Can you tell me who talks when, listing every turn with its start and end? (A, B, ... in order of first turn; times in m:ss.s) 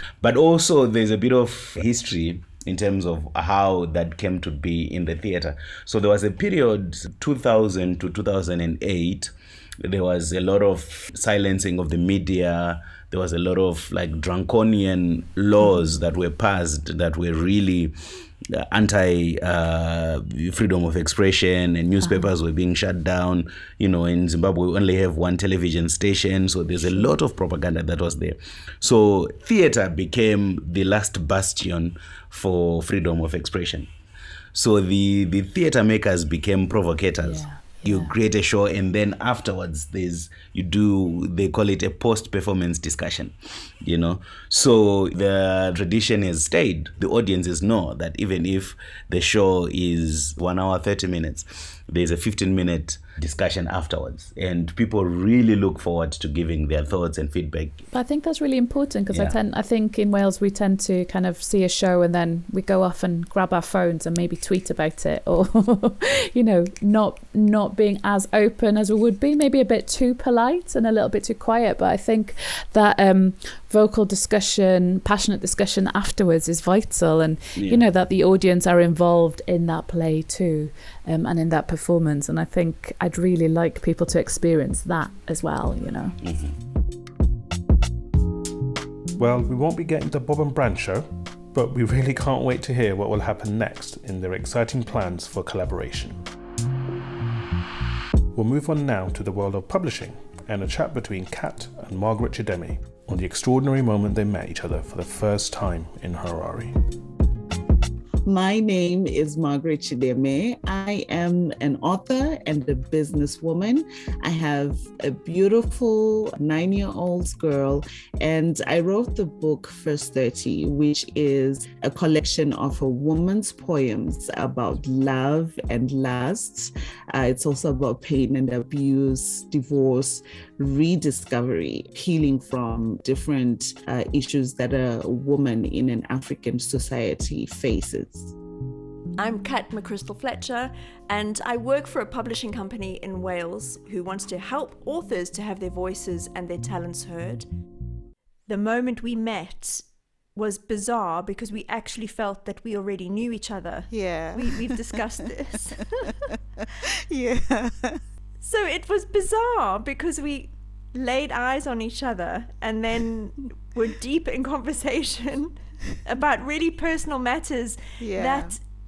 0:00.2-0:17.9 A
0:18.5-0:33.9 A
0:22.0-0:22.3 B
0:34.5-0:57.8 A
0:37.2-0:38.1 B
0:57.9-1:26.2 B
0:59.1-0:59.4 A
1:17.6-1:17.8 A
1:26.2-1:26.6 A
1:29.2-1:36.2 C
1:38.3-1:46.7 C
1:48.3-2:18.3 D
2:19.2-2:27.5 E
2:28.5-2:36.0 E
2:33.9-2:34.9 F
2:37.1-2:38.0 F
2:38.4-2:48.6 E
2:48.0-2:48.6 F